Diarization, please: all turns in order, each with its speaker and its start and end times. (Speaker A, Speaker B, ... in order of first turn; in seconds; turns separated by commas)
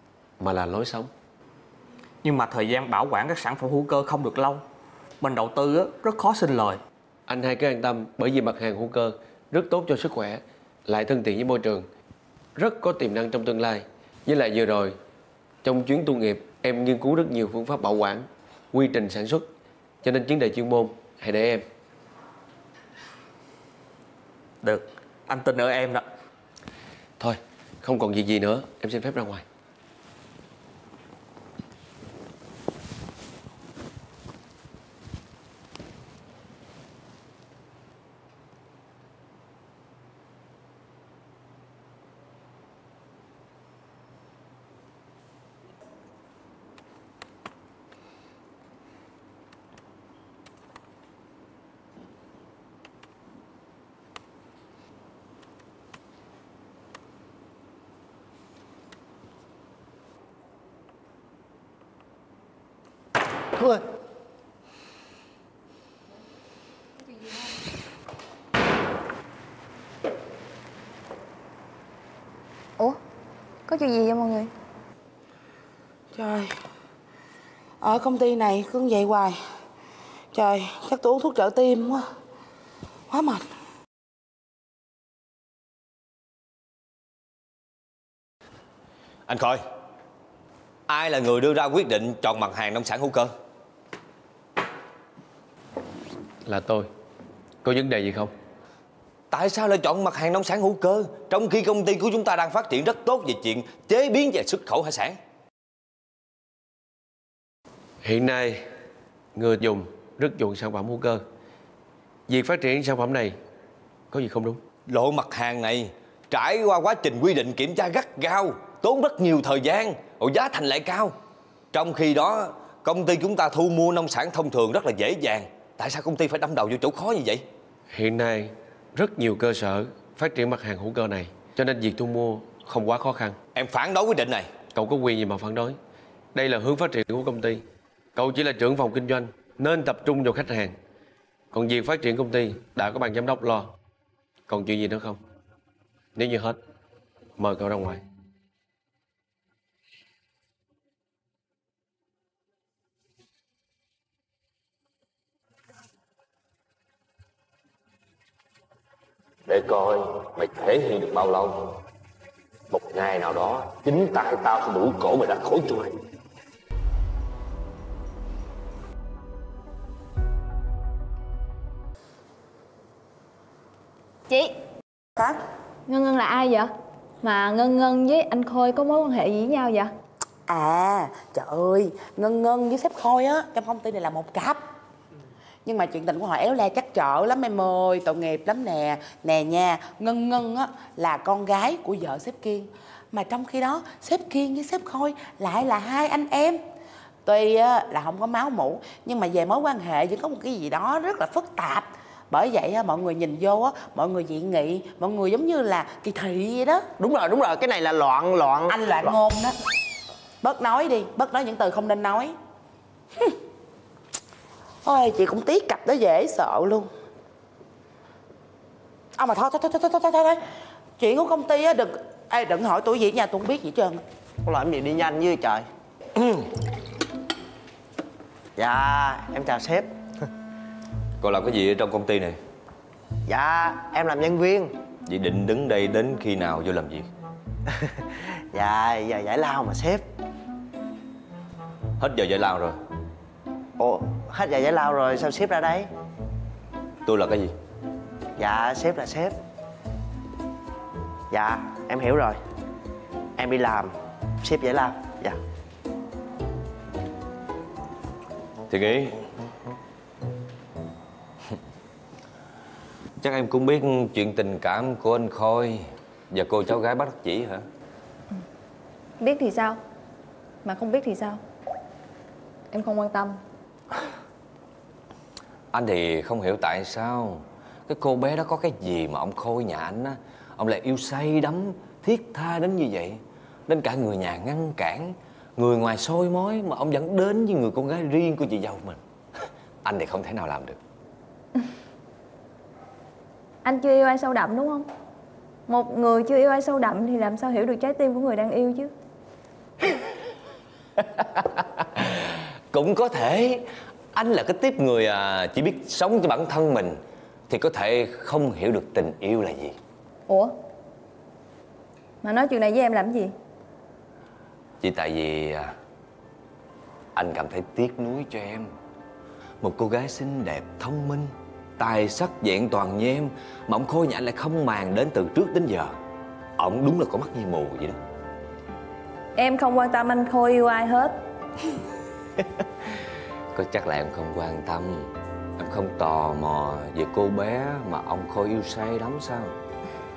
Speaker A: 0.4-1.1, Speaker B: 2.2-4.7, Speaker B: 5.2-6.8, Speaker A: 7.3-11.9, Speaker A: 12.6-15.0, Speaker A: 15.6-19.5, Speaker A: 20.0-21.7, Speaker B: 24.6-26.1, Speaker A: 27.2-29.4, Speaker C: 73.7-74.5, Speaker D: 76.2-76.5, Speaker D: 77.8-79.4, Speaker D: 80.3-82.0, Speaker D: 83.1-83.4, Speaker E: 89.3-89.6, Speaker E: 90.9-93.3, Speaker A: 96.4-96.9, Speaker A: 97.6-98.3, Speaker E: 99.3-105.2, Speaker A: 108.0-108.7, Speaker A: 109.3-111.2, Speaker A: 112.3-113.4, Speaker A: 114.1-114.6, Speaker E: 114.9-121.2, Speaker E: 121.7-127.5, Speaker A: 127.9-133.4, Speaker E: 133.6-134.5, Speaker A: 134.7-135.8, Speaker A: 136.3-137.6, Speaker A: 138.2-140.8, Speaker A: 141.5-143.7, Speaker A: 144.5-145.2, Speaker A: 146.2-146.6, Speaker A: 147.4-148.0, Speaker E: 159.5-161.6, Speaker E: 162.7-165.9, Speaker C: 175.9-179.9, Speaker D: 180.5-184.6, Speaker D: 185.7-196.6, Speaker D: 197.2-206.9, Speaker F: 207.0-208.8, Speaker D: 208.7-209.6, Speaker D: 210.4-212.4, Speaker D: 214.8-216.9, Speaker D: 219.2-220.4, Speaker D: 221.0-224.0, Speaker F: 224.4-225.7, Speaker F: 228.6-229.9, Speaker E: 231.2-232.4, Speaker F: 233.3-234.7, Speaker E: 235.1-237.1, Speaker F: 238.5-240.0, Speaker E: 242.0-242.8, Speaker F: 243.8-245.9, Speaker E: 247.1-247.5, Speaker F: 248.4-249.3, Speaker F: 251.3-252.4, Speaker F: 253.4-253.9, Speaker F: 254.4-255.4, Speaker E: 258.7-259.2, Speaker E: 263.2-267.7, Speaker C: 269.2-269.8, Speaker C: 270.6-271.4, Speaker C: 272.7-273.4, Speaker E: 275.7-289.0, Speaker E: 289.8-290.8, Speaker C: 293.6-294.9, Speaker C: 295.7-298.9, Speaker E: 302.0-309.8, Speaker C: 310.3-310.6, Speaker C: 312.2-313.3, Speaker E: 314.8-315.8, Speaker E: 317.1-318.7, Speaker E: 319.6-325.9, Speaker E: 326.6-328.0, Speaker C: 329.4-331.1, Speaker E: 333.5-339.6